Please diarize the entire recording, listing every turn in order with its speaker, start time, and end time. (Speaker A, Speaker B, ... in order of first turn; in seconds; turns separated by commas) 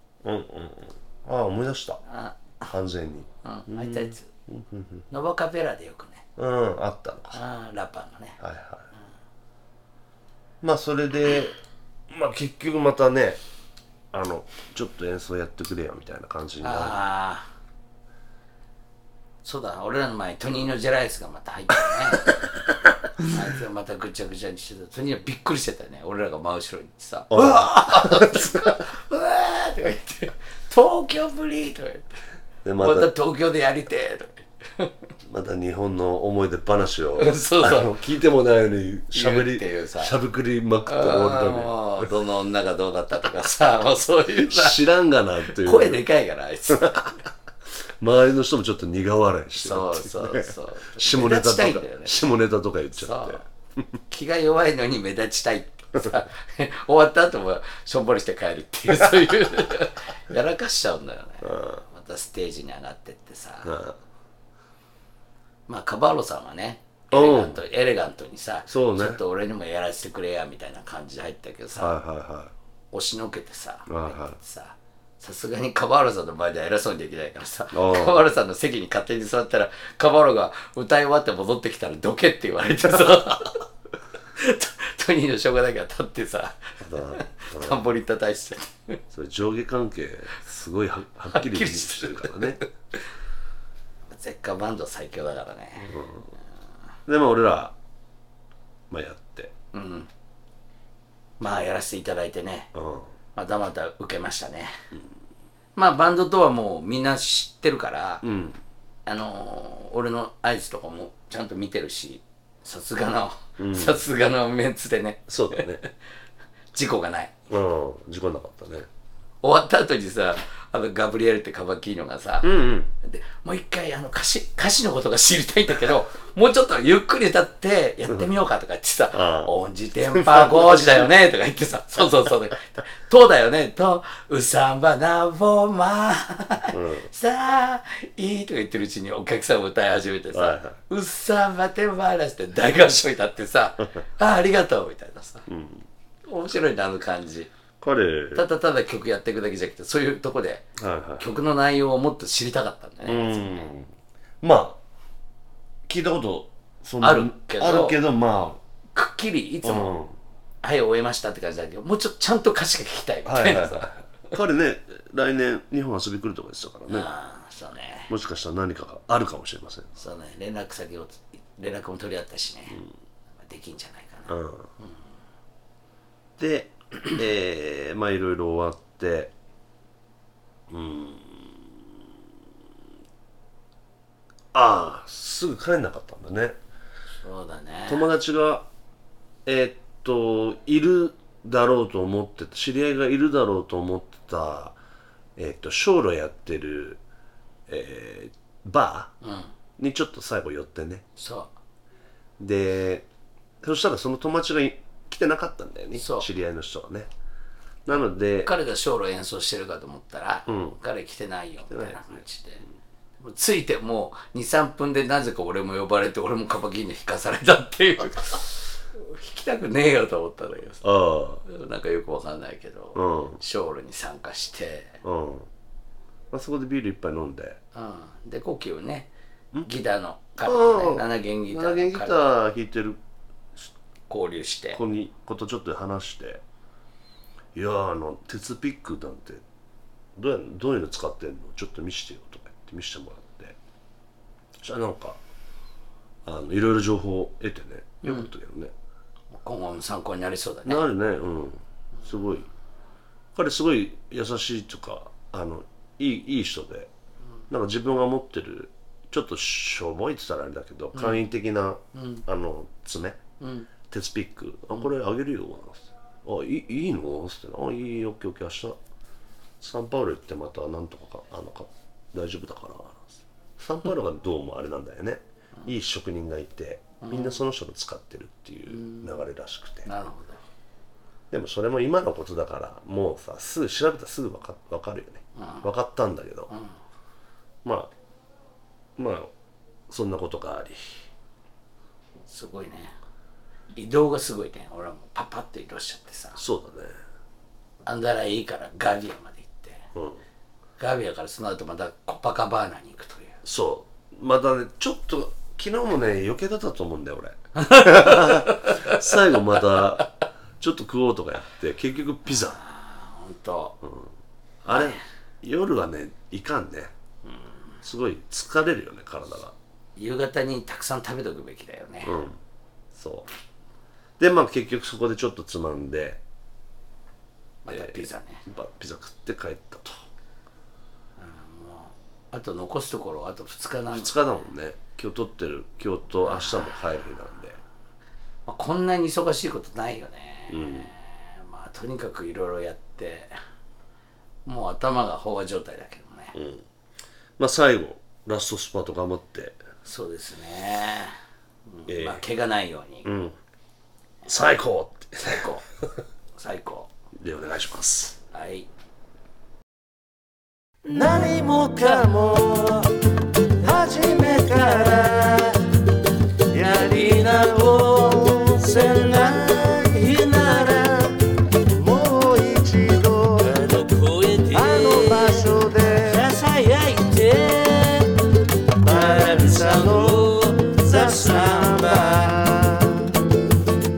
Speaker A: 0.2-2.0, Speaker B: 2.0-2.7, Speaker A: 2.7-5.0, Speaker B: 3.4-4.3, Speaker B: 5.1-6.2, Speaker A: 6.4-7.4, Speaker B: 7.3-8.4, Speaker A: 8.4-8.9, Speaker A: 10.6-13.4, Speaker A: 14.1-17.1, Speaker B: 16.6-17.4, Speaker B: 19.4-22.4, Speaker B: 23.2-32.2, Speaker A: 27.3-28.7, Speaker A: 32.6-33.1, Speaker B: 32.8-34.9, Speaker A: 35.2-42.1, Speaker B: 37.2-37.9, Speaker B: 39.1-40.1, Speaker B: 40.9-44.8, Speaker A: 44.3-46.0, Speaker B: 45.5-47.1, Speaker A: 46.7-47.1, Speaker A: 48.0-53.4, Speaker B: 49.5-52.3, Speaker B: 52.9-53.5, Speaker B: 54.1-63.8, Speaker A: 61.4-61.8, Speaker A: 63.6-63.9, Speaker B: 65.7-72.0, Speaker A: 67.1-67.6, Speaker A: 68.7-69.2, Speaker A: 71.8-72.5, Speaker B: 72.9-83.6, Speaker A: 73.9-74.4, Speaker A: 77.7-78.2, Speaker B: 84.3-89.0, Speaker A: 86.8-87.8, Speaker A: 89.1-92.6, Speaker B: 91.3-92.7, Speaker B: 94.1-96.0, Speaker A: 95.9-96.2, Speaker A: 97.0-97.7, Speaker A: 98.9-99.5, Speaker B: 99.7-100.1, Speaker B: 101.4-102.7, Speaker A: 102.7-103.1, Speaker B: 103.3-104.8, Speaker B: 105.8-108.2, Speaker A: 108.2-108.6, Speaker B: 109.0-115.9, Speaker A: 113.6-114.0, Speaker A: 115.3-115.8, Speaker B: 116.7-117.3, Speaker A: 117.5-118.9, Speaker B: 119.4-145.4, Speaker A: 122.4-122.9, Speaker A: 129.1-129.5, Speaker A: 130.1-131.1, Speaker A: 136.7-137.1, Speaker A: 140.3-140.8, Speaker A: 145.5-145.8, Speaker B: 146.3-147.5, Speaker A: 147.8-148.4, Speaker B: 148.3-153.7, Speaker A: 150.8-151.3, Speaker A: 153.0-154.8, Speaker A: 155.9-158.6, Speaker B: 157.0-158.0, Speaker B: 158.9-160.0, Speaker A: 159.6-160.2, Speaker B: 160.6-163.9, Speaker A: 163.2-167.1, Speaker B: 166.9-168.1, Speaker A: 168.1-169.9, Speaker B: 170.0-172.8, Speaker B: 173.4-174.9, Speaker A: 174.3-174.7, Speaker A: 176.4-179.3, Speaker A: 180.7-181.8, Speaker A: 184.5-186.6, Speaker B: 187.2-188.1, Speaker A: 187.9-188.7, Speaker A: 189.4-194.8, Speaker A: 195.4-197.0, Speaker A: 197.7-199.1, Speaker B: 199.2-199.5, Speaker A: 199.8-201.0, Speaker B: 201.2-201.5, Speaker A: 202.4-203.1, Speaker A: 203.6-207.1, Speaker B: 205.9-206.3, Speaker A: 207.8-208.5, Speaker B: 208.4-212.6, Speaker A: 210.5-210.8, Speaker A: 211.7-212.2, Speaker B: 213.2-220.8, Speaker A: 220.8-221.4, Speaker B: 221.4-225.0, Speaker A: 222.9-223.4, Speaker A: 225.0-225.5, Speaker A: 226.3-227.6, Speaker B: 227.7-229.1, Speaker B: 229.6-232.3, Speaker A: 230.4-233.0, Speaker B: 234.1-234.8, Speaker A: 234.7-236.4, Speaker A: 237.5-239.4, Speaker A: 240.2-243.6, Speaker A: 244.6-245.2, Speaker A: 246.2-248.7, Speaker B: 248.0-248.3, Speaker B: 249.3-250.8, Speaker A: 250.7-252.5, Speaker A: 253.3-256.9, Speaker A: 257.5-263.2, Speaker B: 260.9-261.3, Speaker B: 261.9-262.2, Speaker B: 263.4-263.7, Speaker A: 263.9-268.8, Speaker A: 269.6-279.9, Speaker B: 277.0-277.4, Speaker B: 278.7-279.1, Speaker B: 279.9-280.4, Speaker A: 281.3-286.5, Speaker B: 285.4-285.6, Speaker B: 286.5-286.7, Speaker A: 287.6-287.9, Speaker A: 289.0-289.3, Speaker A: 289.9-291.0, Speaker B: 292.3-292.9, Speaker B: 293.7-296.4, Speaker A: 296.4-296.9, Speaker B: 297.9-299.9, Speaker A: 299.9-300.2, Speaker B: 300.8-303.4, Speaker A: 303.4-312.6, Speaker B: 307.6-309.8, Speaker B: 312.3-313.8, Speaker A: 313.8-314.1, Speaker B: 314.6-315.0, Speaker A: 314.6-316.9, Speaker A: 317.8-319.5, Speaker B: 319.9-322.2, Speaker A: 322.0-322.4, Speaker A: 322.9-323.2, Speaker A: 324.2-326.2, Speaker B: 327.6-328.4, Speaker A: 327.7-329.9, Speaker B: 331.2-334.2, Speaker A: 333.9-337.6, Speaker B: 338.5-343.4, Speaker A: 340.5-340.9, Speaker B: 344.4-346.4, Speaker A: 346.3-346.6, Speaker A: 347.4-349.6, Speaker B: 349.8-353.1, Speaker A: 351.9-352.2, Speaker A: 353.0-353.4, Speaker A: 354.2-355.5, Speaker B: 355.2-355.6, Speaker B: 356.4-356.9, Speaker A: 357.2-358.2, Speaker B: 358.3-358.7, Speaker C: 360.9-362.9, Speaker B: 363.6-363.9, Speaker C: 363.6-365.6, Speaker B: 364.6-365.0, Speaker C: 366.6-371.1, Speaker B: 366.7-368.1, Speaker B: 368.7-370.8, Speaker C: 371.8-373.3, Speaker A: 372.2-373.1, Speaker B: 373.4-375.3, Speaker A: 374.6-376.2, Speaker C: 374.7-376.0, Speaker B: 376.0-378.2, Speaker A: 378.9-380.3, Speaker B: 378.9-382.0, Speaker C: 379.0-380.0, Speaker A: 380.9-382.9, Speaker C: 380.9-382.4